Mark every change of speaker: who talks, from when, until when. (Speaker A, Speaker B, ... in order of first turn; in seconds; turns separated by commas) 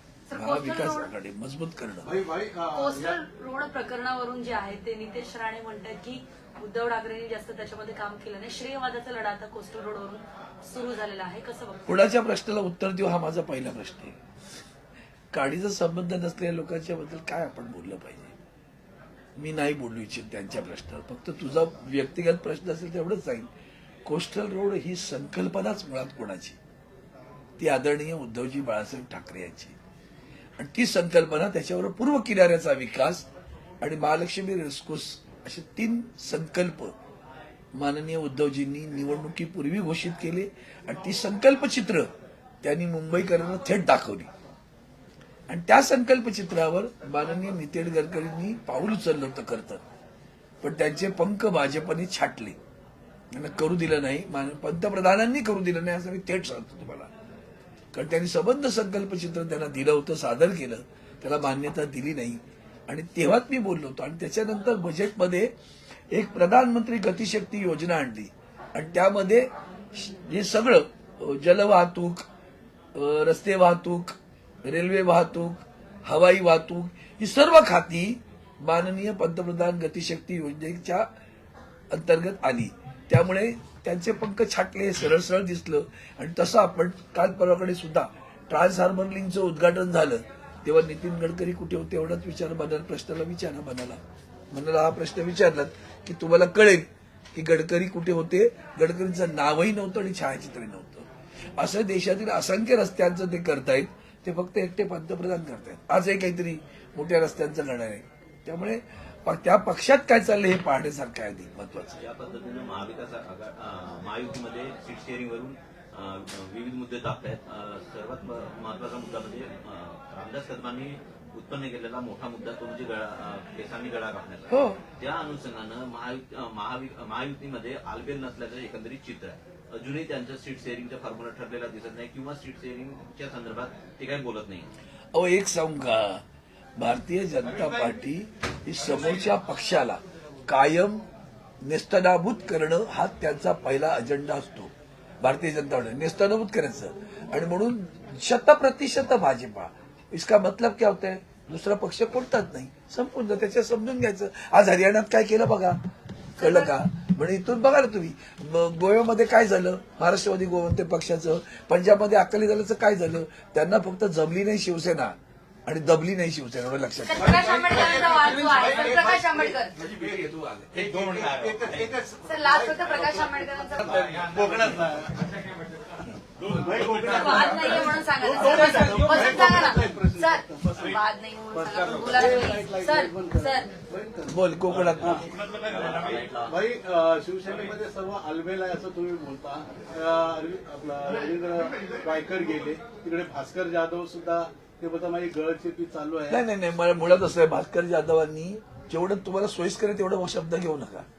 Speaker A: 0.3-1.1, Speaker B: 0.3-2.1, Speaker C: 2.0-3.2, Speaker A: 2.7-11.8, Speaker B: 11.9-14.2, Speaker B: 15.3-18.3, Speaker B: 19.4-23.5, Speaker B: 24.1-26.6, Speaker B: 27.6-29.8, Speaker B: 30.6-33.3, Speaker B: 33.8-37.0, Speaker B: 37.8-42.1, Speaker B: 42.6-44.3, Speaker B: 45.5-49.8, Speaker B: 50.6-52.6, Speaker B: 53.3-57.1, Speaker B: 57.9-65.5, Speaker B: 66.1-72.3, Speaker B: 73.0-81.1, Speaker B: 81.9-94.0, Speaker B: 94.5-112.0, Speaker D: 112.0-134.7, Speaker B: 124.5-124.8, Speaker B: 135.1-136.2, Speaker B: 136.8-141.1, Speaker B: 141.6-155.8, Speaker B: 156.4-165.2, Speaker A: 156.4-156.7, Speaker B: 165.7-167.6, Speaker A: 167.1-169.8, Speaker C: 167.2-175.2, Speaker B: 169.9-170.7, Speaker D: 170.7-172.0, Speaker A: 172.2-174.0, Speaker C: 176.4-185.3, Speaker A: 177.0-183.7, Speaker B: 184.3-185.3, Speaker D: 184.8-186.6, Speaker C: 186.4-196.4, Speaker B: 196.3-201.1